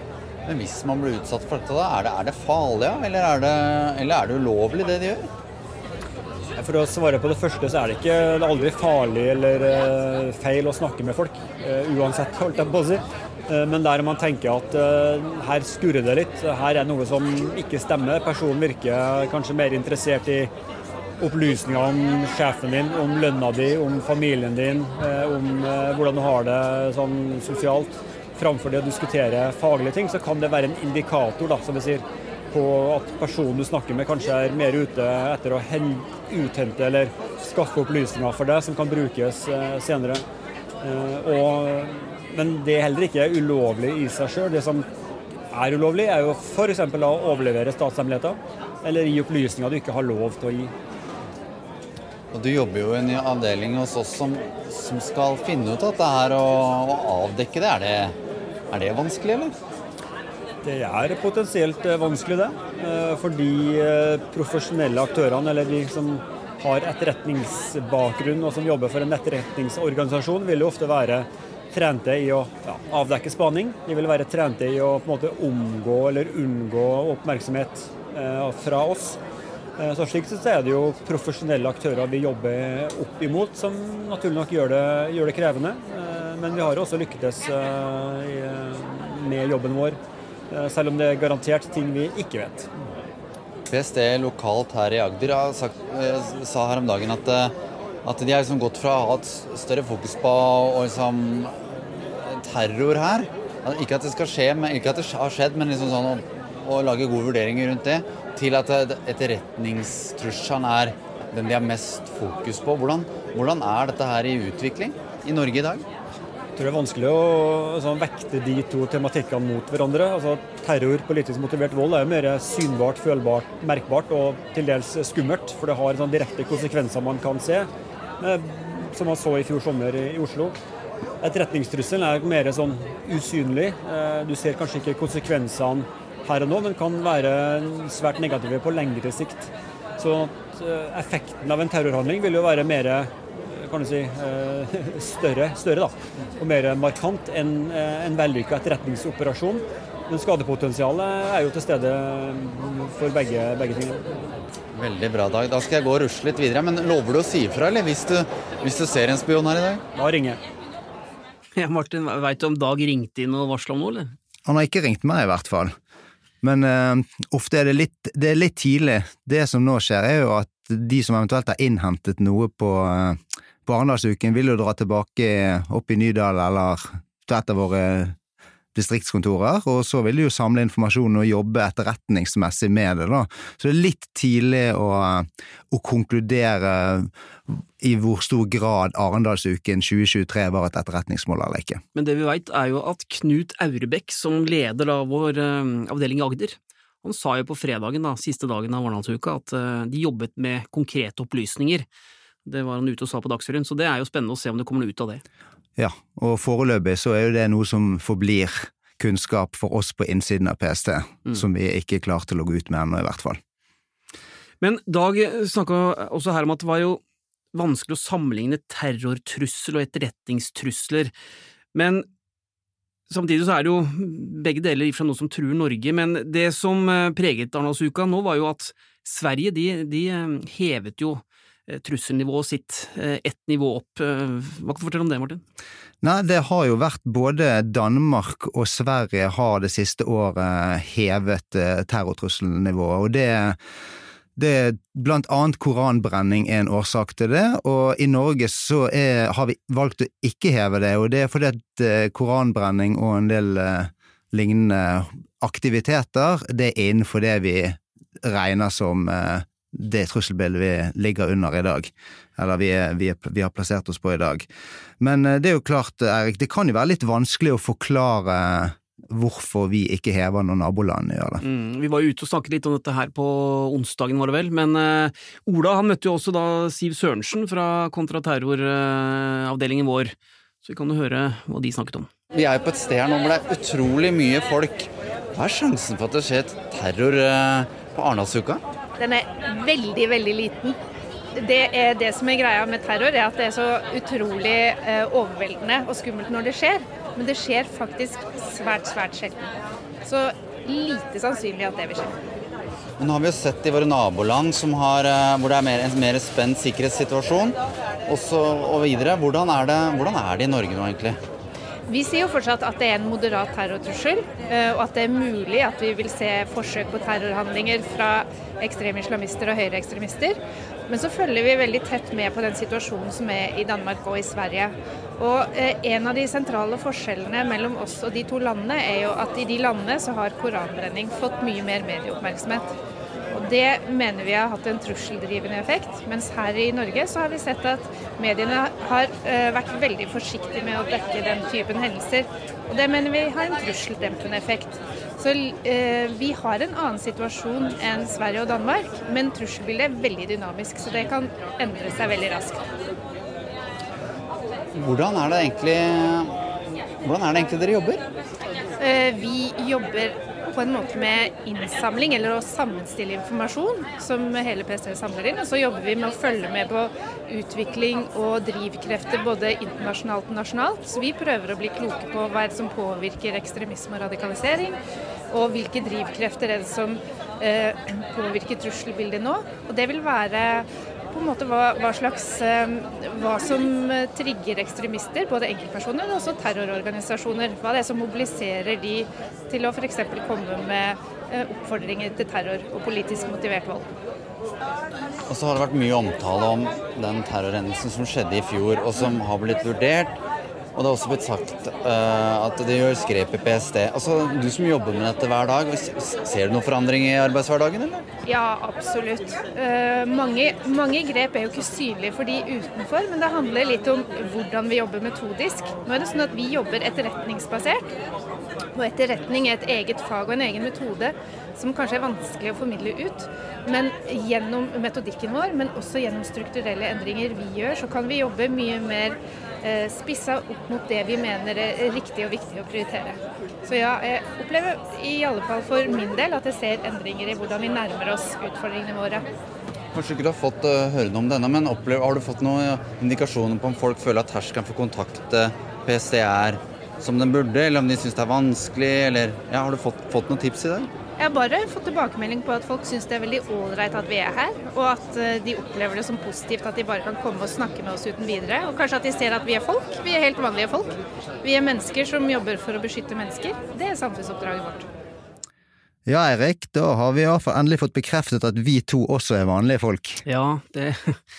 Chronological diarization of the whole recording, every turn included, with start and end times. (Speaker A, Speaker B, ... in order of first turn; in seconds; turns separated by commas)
Speaker A: 0.5-5.3, Speaker B: 6.6-20.5, Speaker B: 21.2-40.2, Speaker B: 40.8-44.9, Speaker B: 45.5-50.7, Speaker A: 52.3-58.1, Speaker A: 58.7-59.6, Speaker B: 60.6-79.2, Speaker B: 79.8-90.0, Speaker B: 90.5-92.7, Speaker A: 93.7-115.9, Speaker B: 116.6-127.7, Speaker B: 128.2-130.6, Speaker B: 131.2-154.3, Speaker A: 154.7-159.8, Speaker B: 159.9-160.4, Speaker C: 161.6-164.2, Speaker D: 164.5-165.7, Speaker D: 166.4-178.2, Speaker D: 178.7-191.8, Speaker C: 191.9-201.9, Speaker C: 202.5-205.2, Speaker D: 205.8-213.4, Speaker C: 214.6-217.0, Speaker C: 217.5-221.1, Speaker C: 221.7-222.1, Speaker C: 223.1-235.4, Speaker D: 236.0-243.6, Speaker D: 244.4-264.5, Speaker D: 265.0-271.4, Speaker C: 271.4-282.1, Speaker A: 282.3-288.6, Speaker E: 289.0-290.8, Speaker E: 291.4-299.5, Speaker E: 300.0-302.2, Speaker A: 303.0-311.2, Speaker E: 311.9-332.7, Speaker E: 333.3-352.6, Speaker A: 354.8-356.4, Speaker A: 357.0-358.0, Speaker E: 358.8-374.8, Speaker E: 375.3-393.9, Speaker A: 395.3-400.2, Speaker A: 400.7-408.1, Speaker E: 408.3-417.9, Speaker E: 418.8-439.3, Speaker A: 439.9-450.9, Speaker E: 451.2-464.9, Speaker D: 466.1-470.2, Speaker C: 470.3-471.2